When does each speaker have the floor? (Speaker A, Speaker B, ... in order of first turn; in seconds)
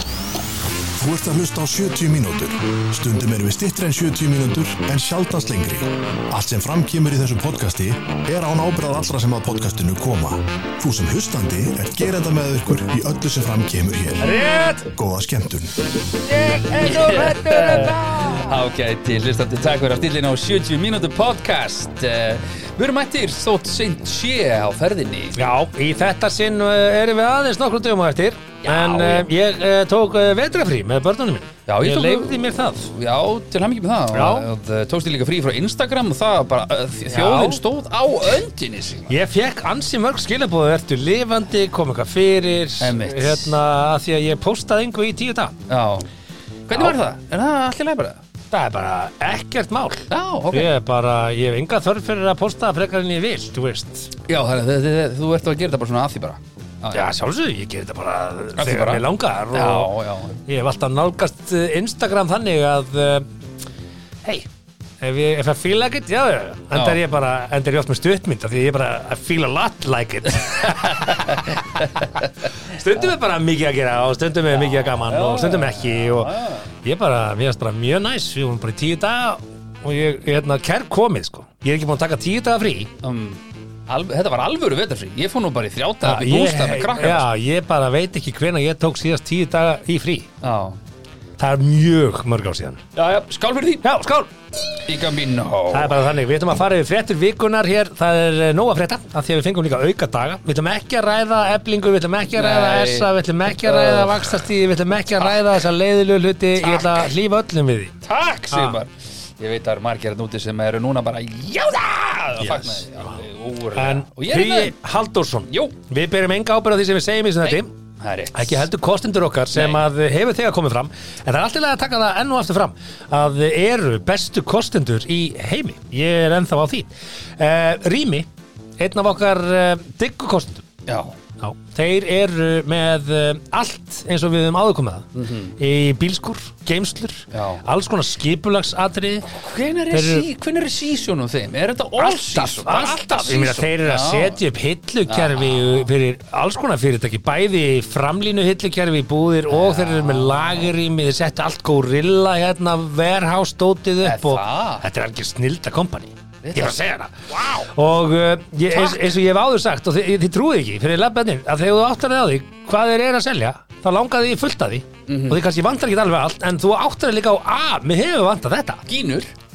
Speaker A: 0.9-14.3, 14.9-15.7
Speaker B: 14.2-14.9, 16.2-18.6, 25.3-32.9, 34.1-34.5, 37.1-37.6, 39.1-45.6, 46.7-47.0, 48.5-54.1, 56.9-59.9, 60.4-63.4, 64.2-64.5, 65.0-82.9, 86.0-90.3, 91.4-92.8, 93.8-94.3, 95.7-108.0, 108.5-108.8, 112.4-113.2, 113.7-117.7, 118.3-130.7, 131.4-139.4, 139.9-140.3, 142.0-168.8
Speaker C: 16.7-25.4, 28.6-29.3, 31.7-39.1, 42.8-43.5, 45.7-46.1, 46.7-48.2, 50.1-50.7, 54.2-57.1, 58.5-60.4, 66.7-67.0, 70.8-72.5, 74.5-76.7, 83.0-87.3, 90.4-90.8, 92.9-93.8, 94.7-96.1, 102.3-104.4, 105.2-105.4, 106.6-107.1, 108.0-114.8, 115.5-115.8, 117.4-118.7, 119.5-119.8, 130.8-131.2, 135.1-135.6, 137.3-137.6, 139.3-144.4, 145.1-145.9, 149.5-150.7, 154.0-154.8, 156.4-157.7, 158.7-159.1, 165.1-165.4, 168.8-169.3